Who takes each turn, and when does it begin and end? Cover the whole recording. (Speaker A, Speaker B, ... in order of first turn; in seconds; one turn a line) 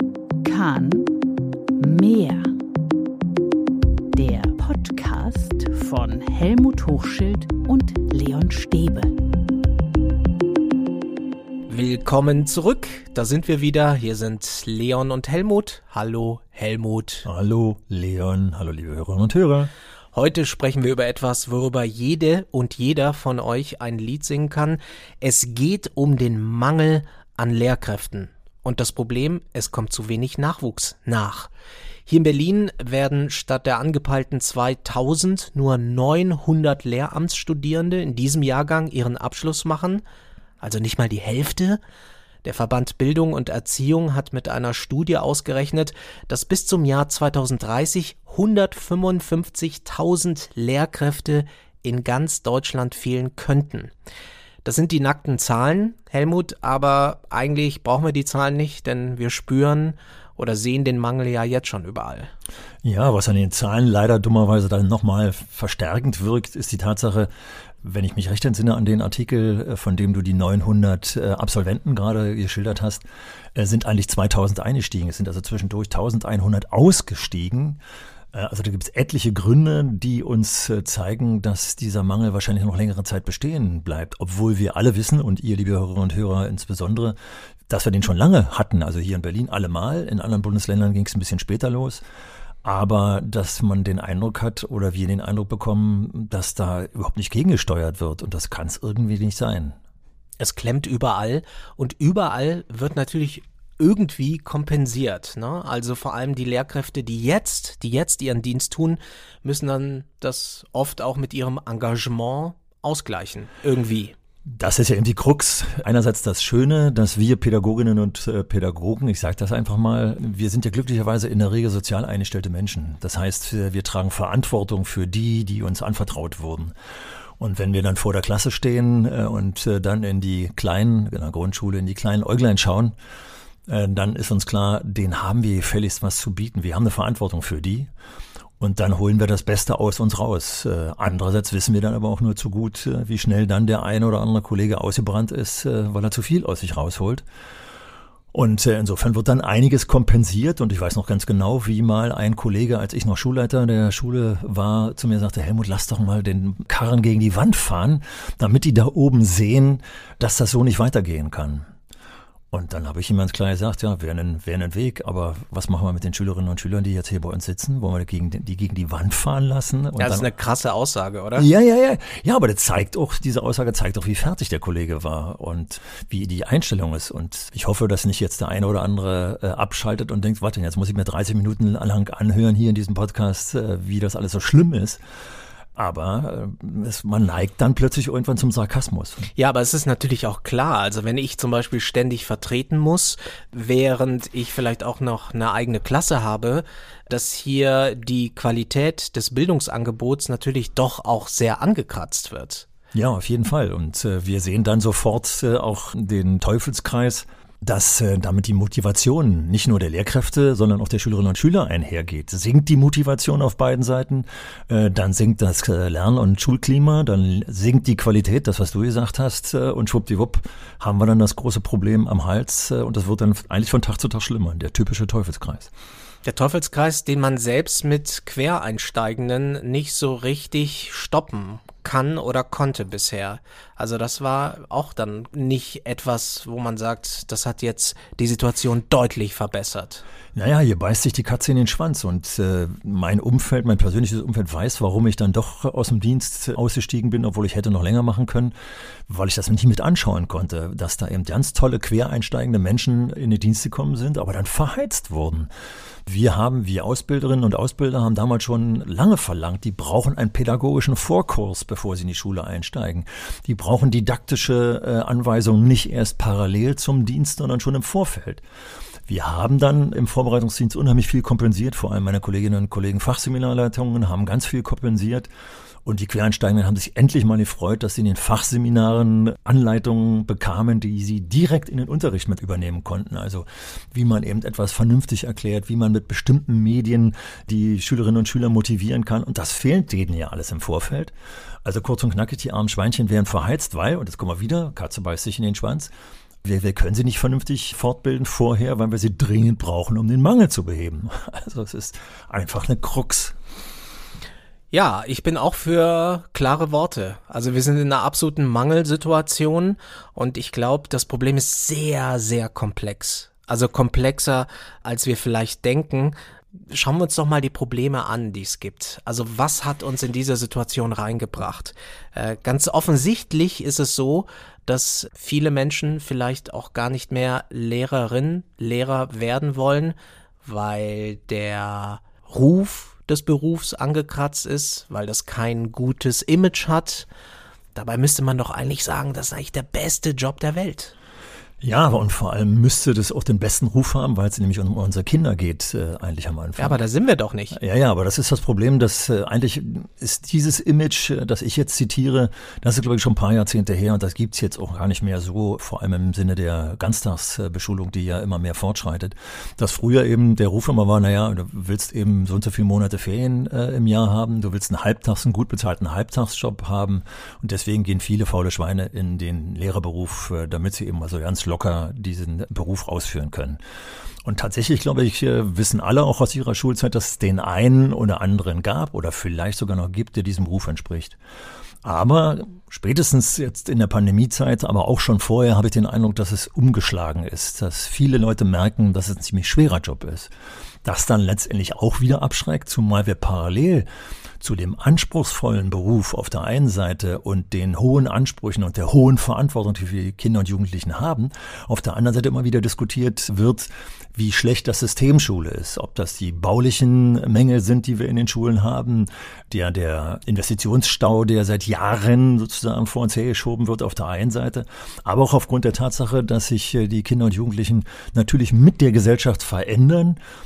Speaker A: 0.4-1.1
Speaker A: 1.8-2.5
Speaker A: 4.1-9.2
Speaker B: 11.7-17.3
Speaker C: 17.2-19.7
Speaker B: 20.1-31.5
Speaker B: 32.1-40.0
Speaker B: 40.6-41.8
Speaker B: 42.4-53.9
Speaker B: 54.6-62.3
Speaker C: 62.8-67.3
Speaker C: 67.8-73.0
Speaker C: 73.5-77.8
Speaker C: 78.3-87.2
Speaker C: 87.7-92.0
Speaker C: 92.6-99.8
Speaker B: 100.4-114.2
Speaker C: 114.5-126.7
Speaker C: 127.4-132.9
Speaker C: 133.7-137.9
Speaker C: 138.6-147.2
Speaker C: 148.3-161.7
Speaker C: 162.5-170.3
Speaker B: 170.0-171.5
Speaker C: 171.4-185.0
Speaker C: 185.8-189.3
Speaker B: 189.4-202.7
Speaker C: 202.9-225.7
Speaker B: 226.2-240.0
Speaker C: 240.3-248.5
Speaker C: 249.1-255.5
Speaker C: 256.1-268.4
Speaker C: 269.1-275.3
Speaker C: 275.9-291.1
Speaker C: 291.6-295.9
Speaker C: 296.4-303.4
Speaker B: 304.7-337.1
Speaker B: 337.8-340.9
Speaker C: 341.6-346.8
Speaker B: 346.6-347.6
Speaker C: 347.5-373.6
Speaker C: 374.2-381.2
Speaker C: 381.8-390.3
Speaker C: 390.8-393.9
Speaker C: 394.4-420.2